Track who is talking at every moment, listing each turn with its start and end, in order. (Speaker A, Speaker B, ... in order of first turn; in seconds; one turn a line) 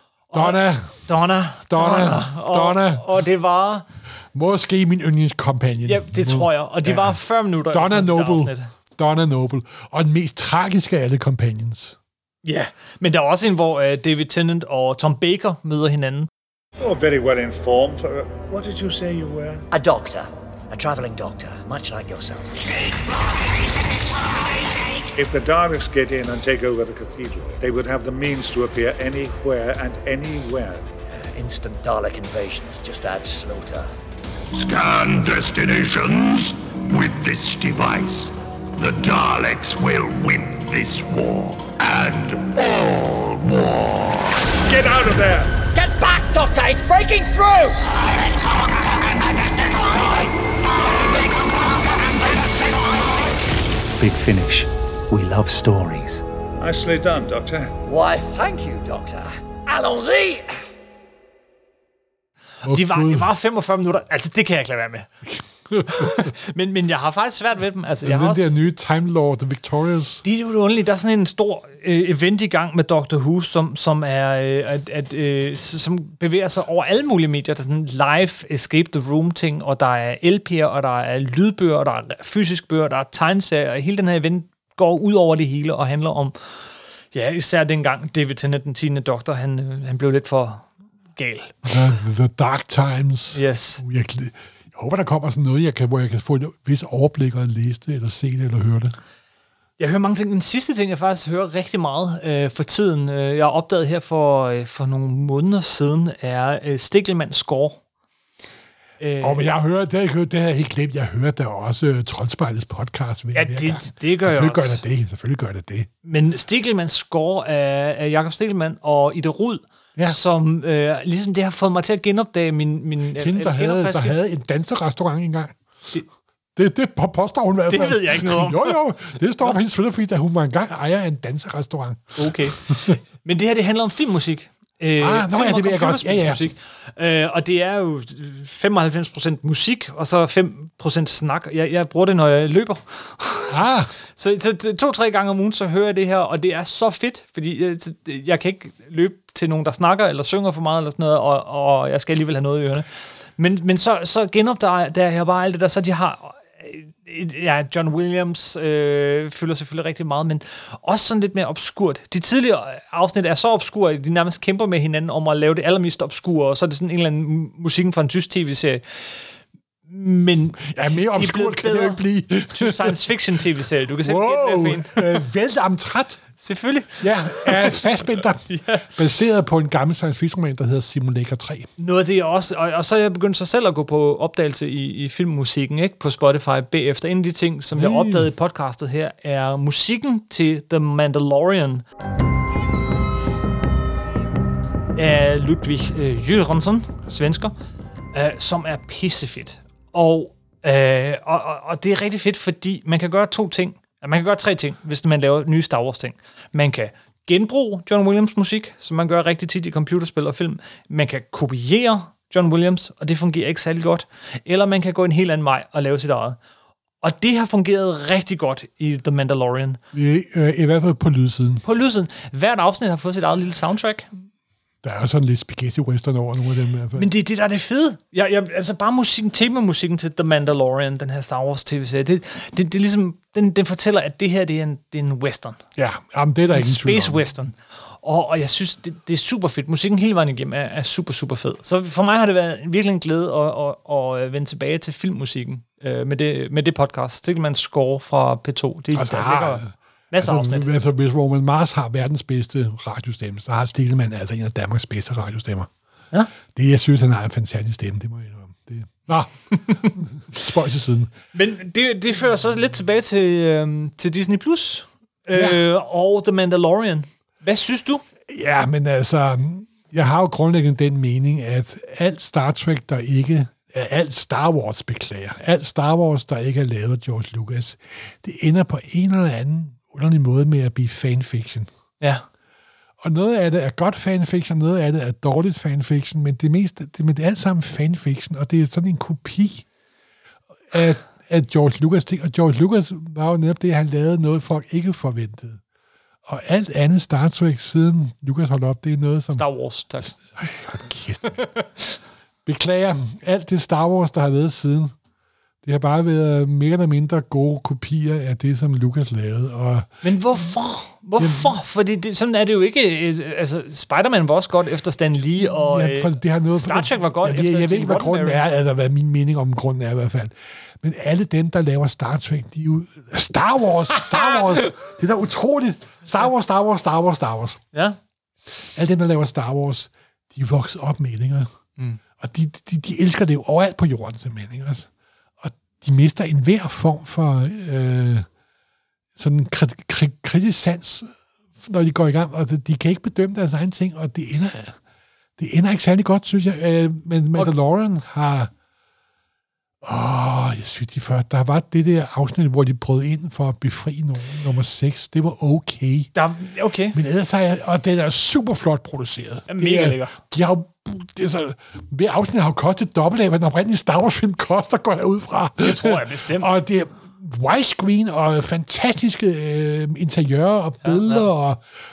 Speaker A: 0.3-3.9
Speaker B: 0.3-1.0
Speaker B: 1.7-3.0
Speaker B: 4.3-12.0
Speaker A: 5.8-8.7
Speaker A: 12.4-16.3
Speaker C: 16.8-19.6
Speaker D: 19.7-22.8
Speaker C: 25.2-30.8
Speaker D: 31.1-33.9
Speaker E: 34.5-44.5
Speaker D: 44.6-47.8
Speaker C: 44.7-45.5
Speaker D: 49.7-50.3
Speaker F: 54.0-56.2
Speaker C: 56.6-57.7
Speaker D: 57.7-60.5
Speaker A: 62.6-65.1
Speaker B: 62.6-63.3
Speaker B: 65.3-66.3
Speaker A: 65.9-68.5
Speaker B: 68.0-70.2
Speaker A: 70.2-86.5
Speaker A: 87.1-91.8
Speaker B: 91.7-99.0
Speaker A: 93.3-93.8
Speaker A: 99.8-107.8
Speaker A: 109.0-109.4
Speaker B: 109.2-115.9
Speaker A: 113.3-114.8
Speaker A: 116.0-124.2
Speaker B: 123.1-125.6
Speaker B: 126.5-133.0
Speaker A: 127.7-128.8
Speaker A: 132.2-143.6
Speaker B: 135.0-136.4
Speaker B: 143.5-143.9
Speaker A: 144.1-169.1
Speaker A: 169.9-175.2
Speaker B: 170.6-173.0
Speaker B: 174.0-176.2
Speaker A: 176.4-177.9
Speaker B: 177.0-181.7
Speaker A: 178.5-178.9
Speaker A: 181.8-191.8
Speaker B: 187.7-188.3
Speaker A: 194.9-197.5
Speaker A: 198.1-216.4
Speaker A: 217.0-219.8
Speaker B: 219.9-221.6
Speaker A: 221.6-224.1
Speaker B: 224.8-227.1
Speaker A: 226.9-235.6
Speaker B: 235.8-237.2
Speaker A: 236.5-250.7
Speaker B: 248.9-255.7
Speaker B: 256.5-261.1
Speaker A: 261.3-268.0
Speaker B: 265.3-265.6
Speaker B: 268.3-281.7
Speaker B: 283.0-289.6
Speaker B: 290.7-295.6
Speaker B: 296.2-299.4
Speaker A: 299.3-300.2
Speaker B: 300.0-301.4
Speaker A: 301.4-301.8
Speaker B: 302.4-304.9
Speaker B: 305.6-309.9
Speaker A: 310.0-318.4
Speaker B: 311.2-311.5
Speaker B: 315.4-327.6
Speaker B: 328.7-331.5
Speaker B: 332.2-334.9
Speaker B: 335.4-338.3
Speaker B: 339.2-344.8
Speaker B: 345.4-348.5
Speaker B: 349.8-356.1
Speaker A: 356.1-357.0
Speaker B: 356.9-371.6
Speaker A: 359.5-360.2
Speaker A: 365.6-366.5
Speaker A: 370.8-371.3